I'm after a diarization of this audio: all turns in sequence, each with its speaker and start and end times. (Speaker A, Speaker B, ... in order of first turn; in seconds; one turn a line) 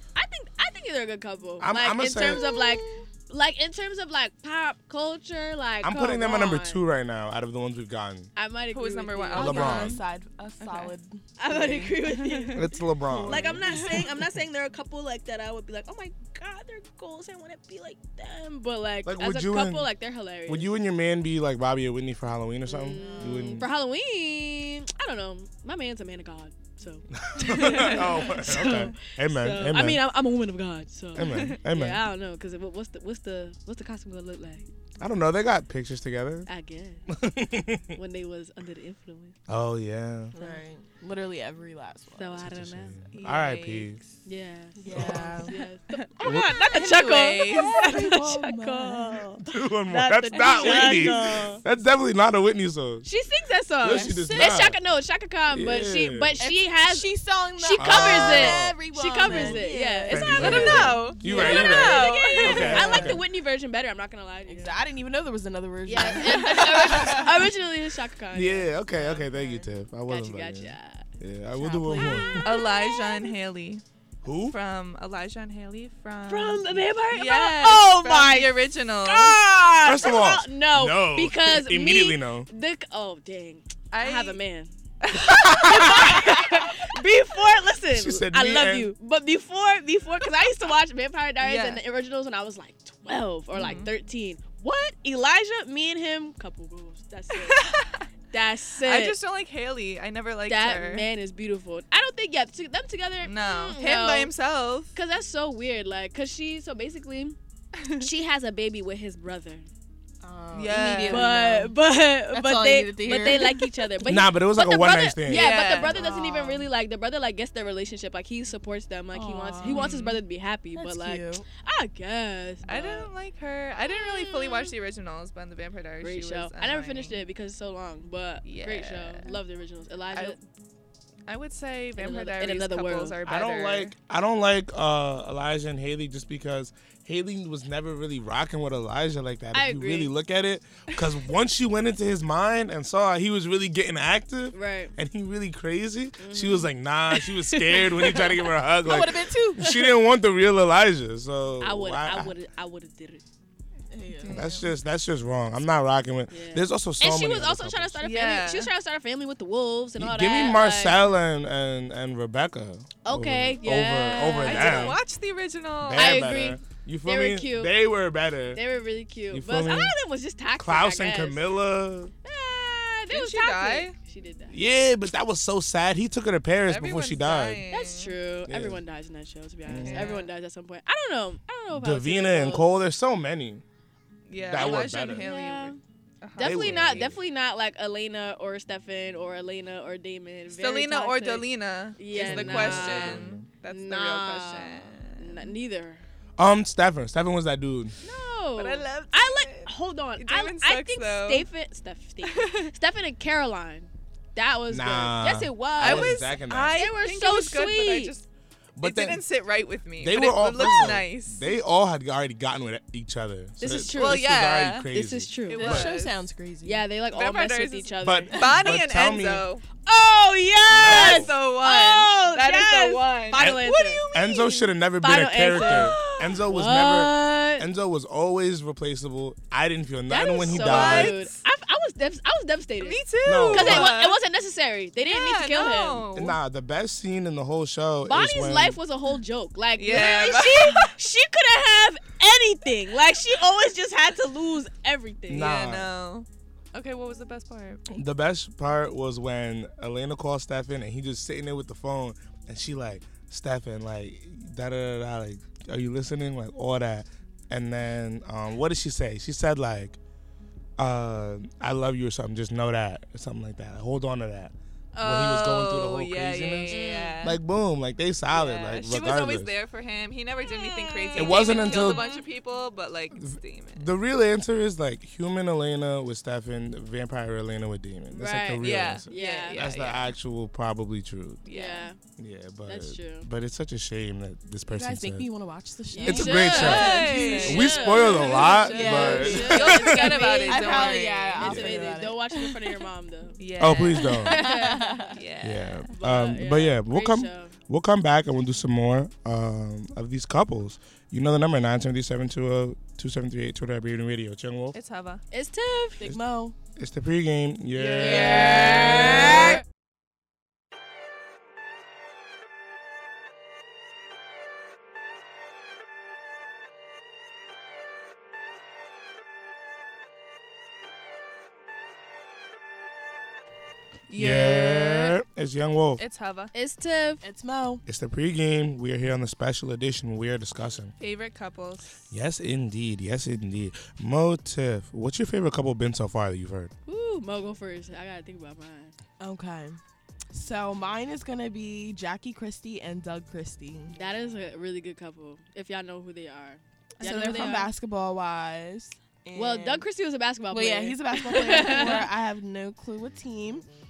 Speaker A: 0.1-6.8
Speaker B: 1.6-2.5
Speaker C: 2.3-3.0
Speaker B: 5.8-8.3
Speaker A: 8.3-10.0
Speaker D: 8.7-10.0
Speaker B: 9.3-10.0
Speaker C: 9.3-14.1
Speaker D: 10.6-10.9
Speaker A: 11.4-20.7
Speaker B: 12.5-13.6
Speaker B: 19.0-19.9
Speaker B: 20.5-23.7
Speaker A: 22.7-34.6
Speaker C: 22.9-23.6
Speaker B: 27.1-30.0
Speaker C: 27.8-28.7
Speaker B: 31.1-32.0
Speaker D: 31.2-31.5
Speaker B: 35.0-36.5
Speaker A: 36.5-37.1
Speaker B: 37.1-38.0
Speaker A: 37.9-39.4
Speaker B: 39.5-40.3
Speaker C: 40.3-42.5
Speaker A: 40.4-40.6
Speaker A: 42.1-43.0
Speaker B: 42.4-44.0
Speaker D: 43.1-44.1
Speaker A: 44.2-51.6
Speaker C: 44.8-45.6
Speaker B: 44.9-45.4
Speaker B: 46.2-46.5
Speaker D: 46.5-47.8
Speaker C: 46.6-49.4
Speaker B: 49.4-53.0
Speaker C: 50.3-51.6
Speaker A: 53.0-64.8
Speaker B: 53.8-54.8
Speaker C: 53.9-54.5
Speaker B: 55.5-56.3
Speaker C: 56.4-63.2
Speaker B: 57.7-63.2
Speaker D: 60.2-63.0
Speaker C: 64.5-67.5
Speaker A: 65.8-71.0
Speaker D: 65.9-67.3
Speaker B: 68.3-72.4
Speaker C: 71.6-72.7
Speaker A: 71.8-73.3
Speaker D: 72.4-73.8
Speaker B: 74.2-74.5
Speaker D: 74.5-79.4
Speaker A: 76.3-78.2
Speaker C: 77.6-78.5
Speaker A: 79.0-97.7
Speaker B: 79.8-82.5
Speaker D: 83.9-84.4
Speaker D: 85.0-86.2
Speaker B: 85.3-86.2
Speaker B: 87.9-88.9
Speaker D: 91.4-91.8
Speaker D: 93.5-93.9
Speaker D: 97.3-98.1
Speaker A: 98.3-99.2
Speaker D: 98.8-101.1
Speaker A: 100.5-104.3
Speaker D: 103.2-104.9
Speaker A: 104.9-107.4
Speaker D: 107.8-108.0
Speaker A: 108.0-109.7
Speaker C: 110.2-111.8
Speaker D: 110.5-111.3
Speaker A: 111.1-123.1
Speaker C: 112.3-113.9
Speaker B: 114.0-115.5
Speaker D: 115.3-116.0
Speaker C: 115.7-116.7
Speaker C: 119.1-119.9
Speaker D: 119.7-120.2
Speaker C: 120.7-121.5
Speaker D: 122.7-127.2
Speaker A: 123.8-124.7
Speaker A: 126.0-130.4
Speaker D: 128.4-129.4
Speaker D: 131.3-133.9
Speaker A: 132.0-133.2
Speaker B: 133.2-152.3
Speaker A: 139.5-140.1
Speaker A: 144.5-144.9
Speaker A: 146.2-148.4
Speaker C: 148.8-149.7
Speaker A: 149.6-149.9
Speaker A: 151.6-153.2
Speaker C: 153.9-154.5
Speaker D: 154.1-154.7
Speaker B: 154.3-158.0
Speaker A: 156.3-161.0
Speaker D: 158.0-158.7
Speaker B: 160.0-165.0
Speaker A: 163.0-165.0
Speaker D: 164.4-166.4
Speaker B: 165.8-168.6
Speaker A: 165.9-167.7
Speaker A: 168.5-171.5
Speaker B: 169.3-169.9
Speaker B: 170.6-172.1
Speaker A: 172.2-174.6
Speaker D: 173.1-173.9
Speaker B: 174.5-177.6
Speaker D: 176.7-178.1
Speaker A: 177.7-182.7
Speaker B: 178.5-178.8
Speaker B: 179.7-180.1
Speaker D: 179.8-180.3
Speaker B: 181.7-183.6
Speaker D: 184.3-187.1
Speaker B: 184.5-185.2
Speaker A: 184.6-185.8
Speaker A: 186.4-191.4
Speaker B: 186.4-187.2
Speaker D: 190.5-195.5
Speaker A: 192.0-196.0
Speaker B: 192.1-193.5
Speaker B: 196.4-197.9
Speaker A: 198.0-208.1
Speaker D: 198.6-201.4
Speaker D: 202.2-202.7
Speaker B: 204.7-206.7
Speaker D: 205.8-208.2
Speaker B: 208.8-209.2
Speaker D: 208.8-211.4
Speaker B: 210.0-215.9
Speaker A: 213.6-214.3
Speaker D: 213.9-214.9
Speaker A: 214.9-215.9
Speaker D: 215.5-216.2
Speaker C: 215.6-216.8
Speaker A: 216.6-218.4
Speaker D: 217.1-219.6
Speaker B: 218.0-219.4
Speaker C: 218.3-218.6
Speaker A: 219.8-224.0
Speaker B: 220.7-221.3
Speaker D: 220.8-224.7
Speaker B: 223.3-231.1
Speaker A: 225.0-227.7
Speaker D: 225.5-226.3
Speaker A: 230.1-236.1
Speaker D: 230.5-231.4
Speaker D: 232.8-234.2
Speaker B: 233.2-233.9
Speaker D: 235.0-236.4
Speaker B: 236.1-238.8
Speaker A: 238.1-245.6
Speaker D: 239.8-240.9
Speaker B: 245.3-245.9
Speaker D: 245.3-247.8
Speaker B: 247.9-260.0
Speaker B: 260.8-269.5
Speaker D: 264.9-267.4
Speaker A: 266.7-267.2
Speaker D: 268.3-273.9
Speaker A: 270.5-272.2
Speaker B: 271.1-272.0
Speaker B: 273.1-281.4
Speaker A: 278.1-279.7
Speaker D: 278.6-280.1
Speaker D: 281.4-281.9
Speaker A: 281.5-282.0
Speaker B: 282.2-285.3
Speaker A: 282.6-283.3
Speaker C: 284.7-292.8
Speaker A: 285.9-293.4
Speaker B: 286.0-290.0
Speaker D: 286.2-291.8
Speaker B: 291.4-291.9
Speaker D: 293.4-295.9
Speaker B: 293.6-294.4
Speaker C: 294.2-295.1
Speaker A: 294.2-295.2
Speaker B: 295.4-304.8
Speaker A: 295.9-297.6
Speaker D: 304.7-305.2
Speaker A: 305.3-306.1
Speaker C: 306.0-306.6
Speaker B: 306.8-309.5
Speaker D: 307.8-309.4
Speaker C: 307.9-309.6
Speaker A: 307.9-309.6
Speaker D: 324.1-325.2
Speaker B: 324.1-326.0
Speaker D: 326.0-326.5
Speaker A: 326.5-327.2
Speaker C: 327.2-327.8
Speaker B: 327.9-330.9
Speaker D: 331.0-332.0
Speaker B: 332.1-336.7
Speaker A: 336.9-338.9
Speaker C: 339.2-339.8
Speaker C: 340.3-343.9
Speaker A: 343.9-347.7
Speaker C: 347.0-349.9
Speaker D: 347.1-347.5
Speaker A: 349.3-352.1
Speaker C: 350.5-353.7